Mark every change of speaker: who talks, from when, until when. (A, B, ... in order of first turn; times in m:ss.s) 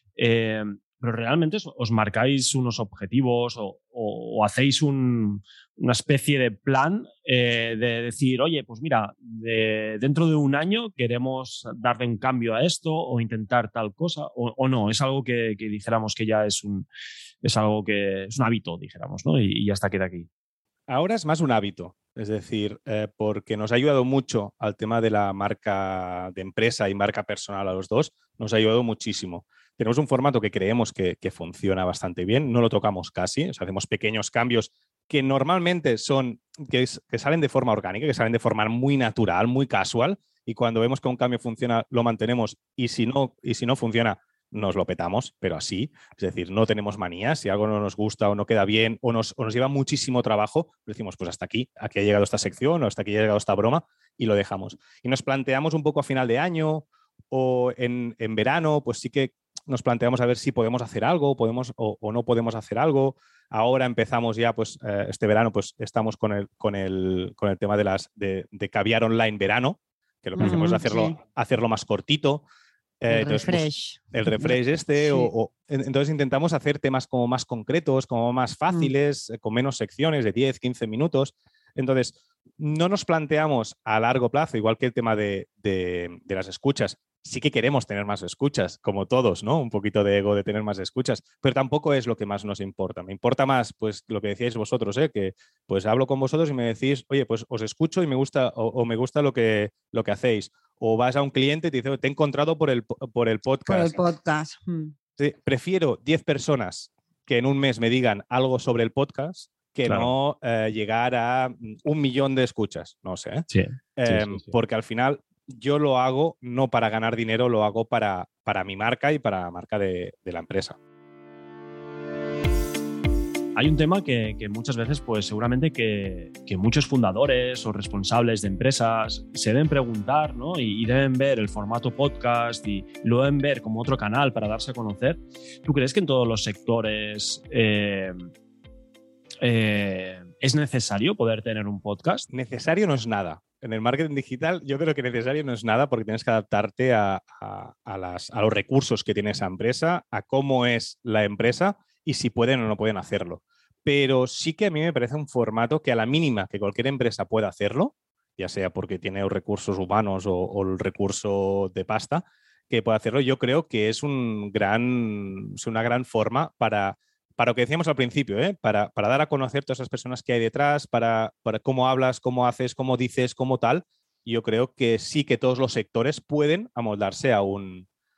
0:00.2-0:16.9 A
0:17.4-0:20.3 A
0:20.9-1:12.4 B
1:10.4-1:11.2 C
1:13.0-1:44.0 B
1:13.1-1:15.3 C
1:43.7-1:44.9 C
1:45.2-1:53.4 B
1:49.9-1:50.1 A
1:53.5-1:54.5 A
1:54.0-2:00.8 B
2:03.6-2:18.3 A
2:19.4-2:22.3 A
2:22.3-2:57.9 B